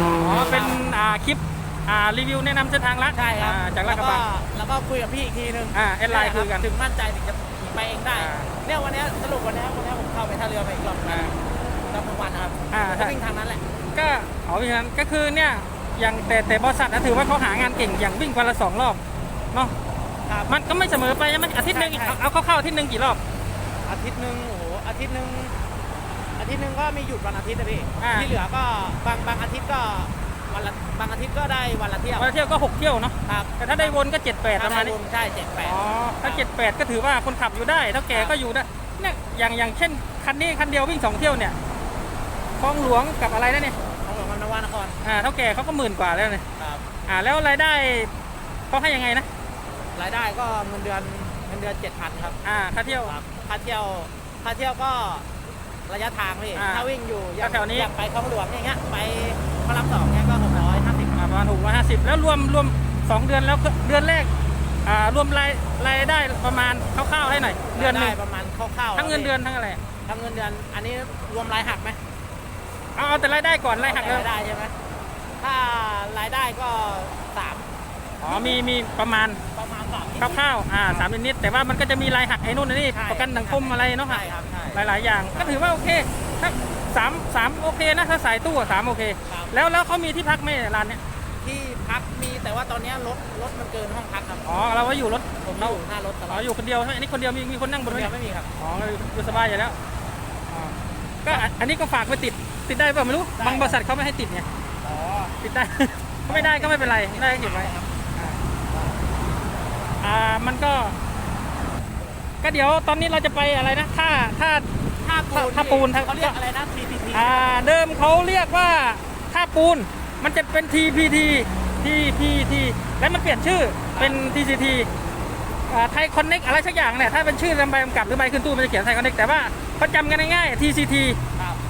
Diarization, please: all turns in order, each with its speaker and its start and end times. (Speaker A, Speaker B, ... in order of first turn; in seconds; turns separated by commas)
Speaker A: 0.2-4.2, Speaker B: 0.3-0.8, Speaker B: 3.1-13.6, Speaker A: 5.7-6.7, Speaker A: 8.1-8.5, Speaker A: 11.1-11.3, Speaker A: 12.7-13.2, Speaker A: 13.9-19.0, Speaker B: 20.3-20.5, Speaker A: 20.5-23.2, Speaker B: 21.7-22.2, Speaker B: 23.9-25.6, Speaker B: 26.4-32.3, Speaker A: 28.0-28.3, Speaker A: 32.2-35.0, Speaker B: 33.3-34.0, Speaker B: 34.5-36.5, Speaker A: 35.6-41.6, Speaker A: 42.6-43.8, Speaker B: 44.0-45.0, Speaker A: 45.0-46.5, Speaker B: 46.6-46.9, Speaker A: 47.1-48.1, Speaker A: 48.7-49.3, Speaker B: 50.0-55.3, Speaker A: 52.4-53.2, Speaker B: 55.9-61.2, Speaker A: 56.5-56.9, Speaker A: 57.4-57.9, Speaker A: 61.1-64.3, Speaker A: 64.8-68.2, Speaker B: 67.7-69.3, Speaker A: 69.0-69.8, Speaker B: 70.1-72.0, Speaker A: 73.0-74.3, Speaker B: 73.8-74.8, Speaker B: 75.4-77.7, Speaker A: 78.2-79.4, Speaker B: 78.3-78.6, Speaker B: 79.5-81.1, Speaker A: 80.2-91.0, Speaker B: 82.9-85.6, Speaker B: 89.3-89.6, Speaker B: 91.4-94.5, Speaker A: 94.5-99.8, Speaker B: 95.4-96.5, Speaker B: 97.9-98.5, Speaker A: 100.5-104.5, Speaker B: 103.4-103.8, Speaker B: 104.8-105.4, Speaker A: 105.4-108.4, Speaker B: 106.3-108.0, Speaker B: 108.7-109.1, Speaker A: 110.0-111.0, Speaker A: 112.4-114.7, Speaker B: 115.0-117.5, Speaker A: 115.3-116.3, Speaker A: 117.1-124.9, Speaker B: 123.9-124.2, Speaker A: 125.7-131.2, Speaker B: 131.4-131.6